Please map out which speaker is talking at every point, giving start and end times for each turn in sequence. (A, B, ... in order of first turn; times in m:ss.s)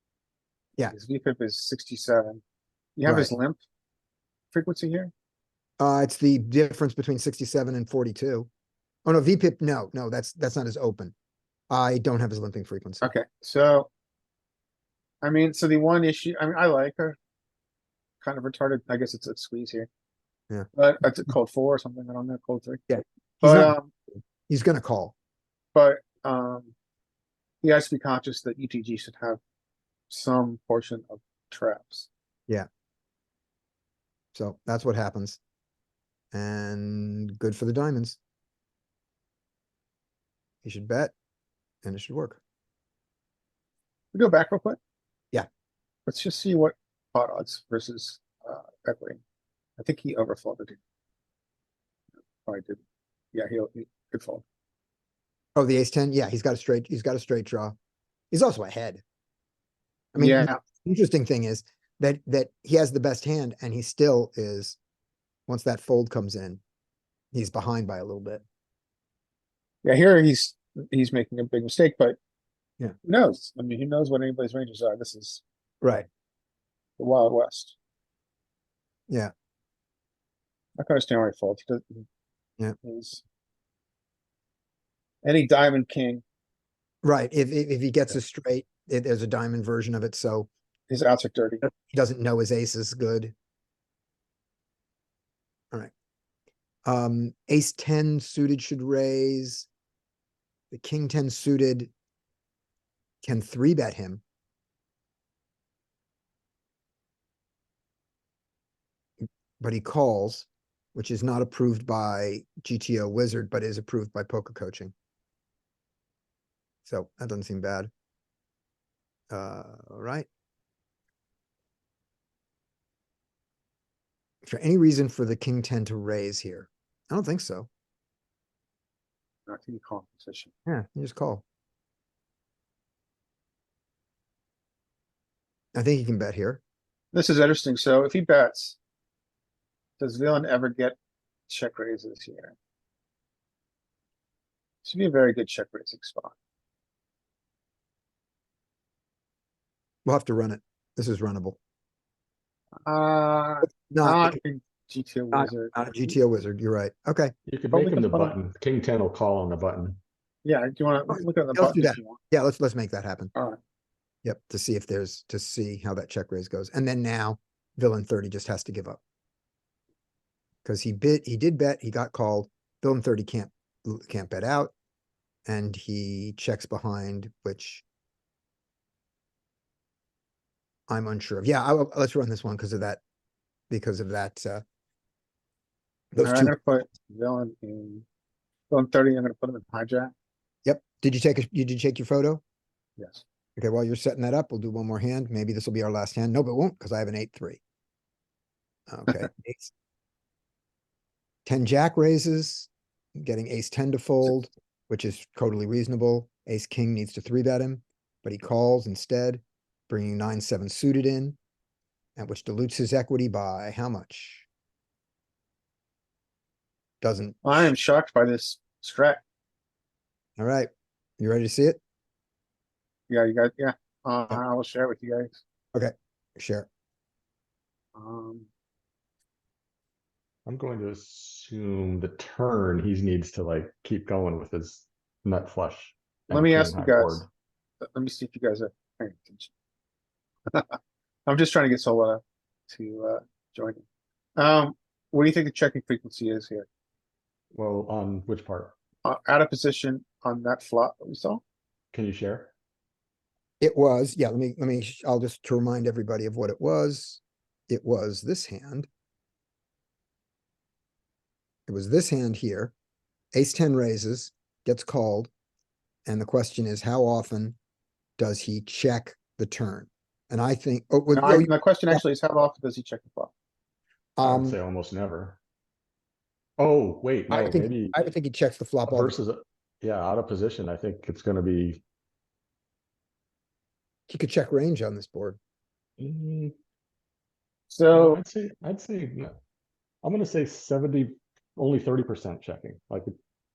0:00.9-0:02.4 A
0:03.0-0:03.6 A
0:03.0-0:03.3 B
0:04.5-0:05.1 A
0:05.8-0:08.5 B
0:09.0-0:11.1 B
0:11.7-0:13.1 B
0:13.0-0:13.9 A
0:15.2-0:17.2 A
0:18.2-0:19.9 A
0:20.7-0:22.8 A
0:22.9-0:23.7 B
0:23.4-0:23.9 A
0:24.5-0:25.1 B
0:25.7-0:26.7 A
0:27.6-0:29.4 A
0:30.1-0:32.1 A
0:34.3-0:35.4 B
0:36.3-0:38.2 B
0:40.6-0:41.1 B
0:41.8-0:42.4 B
0:44.1-0:44.8 A
0:46.0-0:49.2 A
0:49.8-0:50.8 A
0:52.4-0:52.8 A
0:53.3-0:54.4 A
0:55.5-0:57.8 B
0:58.3-0:59.0 B
1:00.1-1:04.8 B
1:00.2-1:00.6 A
1:05.5-1:06.6 B
1:07.3-1:08.4 B
1:09.8-1:12.2 A
1:13.0-1:15.4 A
1:15.8-1:16.1 B
1:17.0-1:17.8 A
1:20.8-1:22.0 A
1:22.8-1:23.2 A
1:25.2-1:26.2 A
1:27.0-1:30.5 B
1:30.9-1:31.6 A
1:31.6-1:33.3 B
1:36.8-1:39.7 B
1:40.7-1:41.9 B
1:43.2-1:44.2 B
1:49.6-1:54.9 B
1:56.8-1:57.9 B
1:59.3-2:00.3 B
2:04.4-2:07.7 B
2:09.5-2:10.5 A
2:10.7-2:11.4 B
2:15.7-2:16.6 B
2:17.1-2:18.8 A
2:20.0-2:21.0 A
2:21.5-2:22.6 A
2:24.8-2:26.3 A
2:30.0-2:31.6 B
2:32.8-2:36.1 A
2:33.9-2:34.4 B
2:35.3-2:37.3 B
2:37.5-2:40.0 C
2:37.7-2:38.4 A
2:40.4-2:42.2 A
2:41.1-2:43.3 B
2:44.2-2:49.0 B
2:50.6-2:54.7 B
2:55.5-2:57.8 B
3:00.9-3:03.0 B
3:03.7-3:04.6 B
3:06.1-3:06.6 B
3:06.2-3:08.0 A
3:08.7-3:10.1 A
3:10.6-3:12.4 B
3:13.0-3:13.2 A
3:13.6-3:17.6 B
3:18.9-3:19.7 B
3:21.4-3:31.4 B
3:32.2-3:34.5 B
3:37.0-3:37.7 B
3:37.4-3:39.2 A
3:40.4-3:41.8 B
3:43.1-3:45.4 A
3:45.7-3:46.7 B
3:47.9-3:48.5 A
3:50.4-3:57.3 C
3:56.3-3:57.2 A
3:57.8-3:59.5 A
4:00.5-4:03.8 A
4:04.4-4:06.7 A
4:07.5-4:08.7 C
4:09.0-4:11.4 A
4:11.9-4:12.5 C
4:13.6-4:18.9 B
4:21.7-4:22.7 B
4:23.3-4:25.3 B
4:26.0-4:27.6 B
4:28.2-4:32.0 B
4:31.1-4:33.3 A
4:34.2-4:34.6 B
4:34.2-4:35.4 C
4:36.6-4:37.9 C
4:37.3-4:39.2 B
4:38.8-4:41.8 C
4:44.1-4:45.4 B
4:46.0-4:46.5 C
4:47.7-4:48.2 A
4:47.9-4:49.4 C
4:50.0-4:53.1 C